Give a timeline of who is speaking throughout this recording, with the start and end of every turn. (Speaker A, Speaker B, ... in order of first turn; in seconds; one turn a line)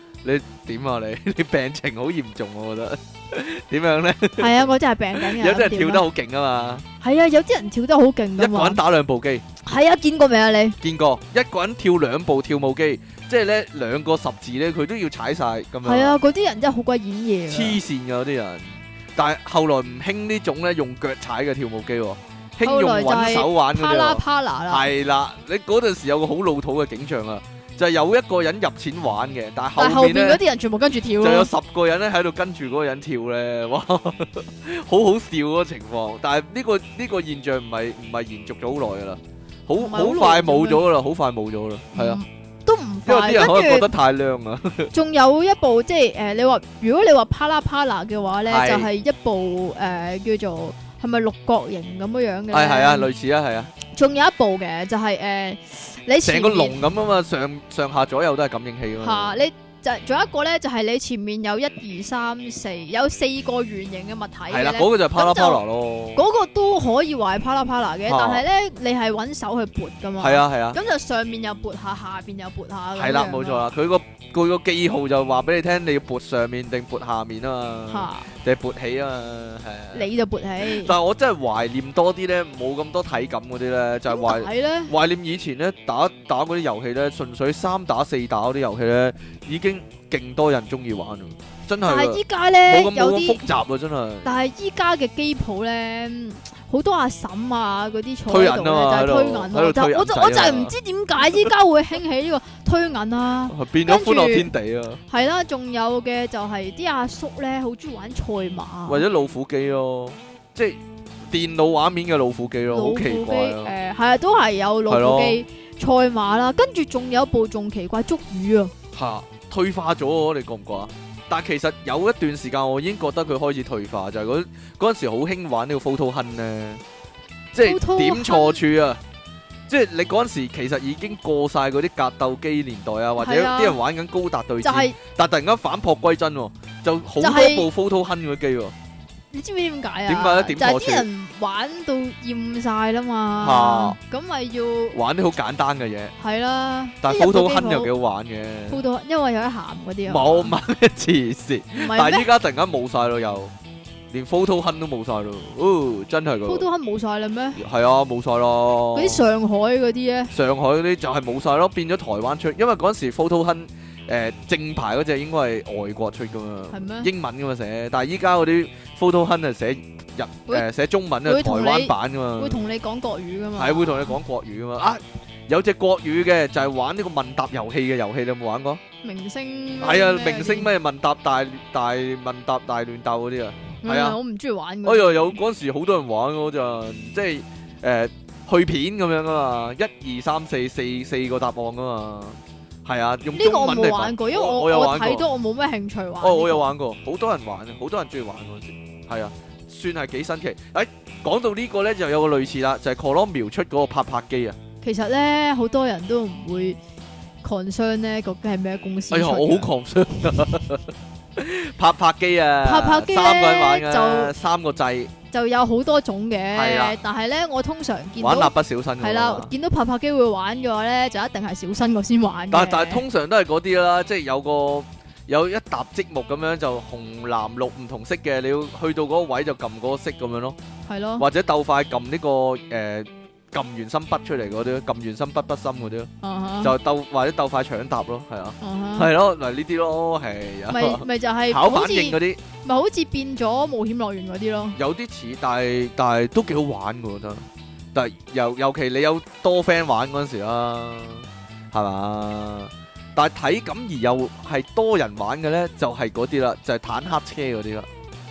Speaker A: 0.2-6.8
Speaker B: 4.4-6.0
Speaker B: 7.0-8.8
Speaker A: 8.4-9.4
Speaker B: 9.6-10.8
Speaker A: 10.8-16.2
Speaker B: 15.8-17.8
Speaker A: 17.5-30.4
Speaker B: 22.6-24.9
Speaker B: 29.8-31.5
Speaker A: 31.2-42.2
Speaker B: 39.8-40.8
Speaker B: 41.9-43.9
Speaker A: 43.0-44.9
Speaker B: 44.9-53.1
Speaker A: 48.5-48.9
Speaker A: 52.5-53.7
Speaker B: 53.9-56.8
Speaker A: 56.2-59.4
Speaker B: 59.0-65.6
Speaker A: 64.5-66.2
Speaker B: 66.1-73.7
Speaker A: 68.1-68.4
Speaker A: 70.2-70.8
Speaker A: 73.0-80.1
Speaker B: 77.9-78.3
Speaker B: 79.9-80.9
Speaker A: 80.6-94.3
Speaker B: 84.1-84.9
Speaker B: 91.8-93.5
Speaker B: 94.2-104.5
Speaker A: 98.3-100.7
Speaker A: 103.5-105.0
Speaker B: 105.1-109.0
Speaker A: 108.9-113.7
Speaker B: 112.7-118.7
Speaker A: 114.9-115.4
Speaker A: 118.9-126.8
Speaker A: 127.5-129.0
Speaker B: 127.6-128.6
Speaker A: 129.7-138.7
Speaker B: 133.2-133.8
Speaker B: 134.6-134.9
Speaker B: 137.2-137.7
Speaker B: 139.3-145.0
Speaker A: 140.1-141.1
Speaker A: 143.4-144.0
Speaker A: 144.9-146.1
Speaker B: 146.2-147.9
Speaker A: 147.0-148.8
Speaker B: 148.7-150.5
Speaker A: 150.1-153.5
Speaker B: 151.7-152.3
Speaker A: 154.1-156.7
Speaker B: 156.4-157.6
Speaker A: 157.6-159.2
Speaker B: 158.9-160.3
Speaker A: 160.3-172.6
Speaker B: 166.7-167.1
Speaker B: 171.2-174.2
Speaker A: 173.6-178.8
Speaker B: 179.0-180.7
Speaker A: 179.8-184.2
Speaker B: 183.8-185.4
Speaker A: 184.8-195.2
Speaker B: 193.3-196.7
Speaker A: 196.2-204.6
Speaker B: 204.8-206.8
Speaker B: 207.4-209.7
Speaker A: 209.1-215.1
Speaker B: 212.6-214.3
Speaker B: 215.3-223.0
Speaker A: 216.5-217.0
Speaker A: 218.2-219.5
Speaker A: 222.5-230.6
Speaker B: 230.8-231.2
Speaker A: 231.2-236.1
Speaker B: 236.2-236.7
Speaker A: 236.6-242.4
Speaker B: 238.6-239.1
Speaker B: 240.7-244.8
Speaker A: 244.7-257.9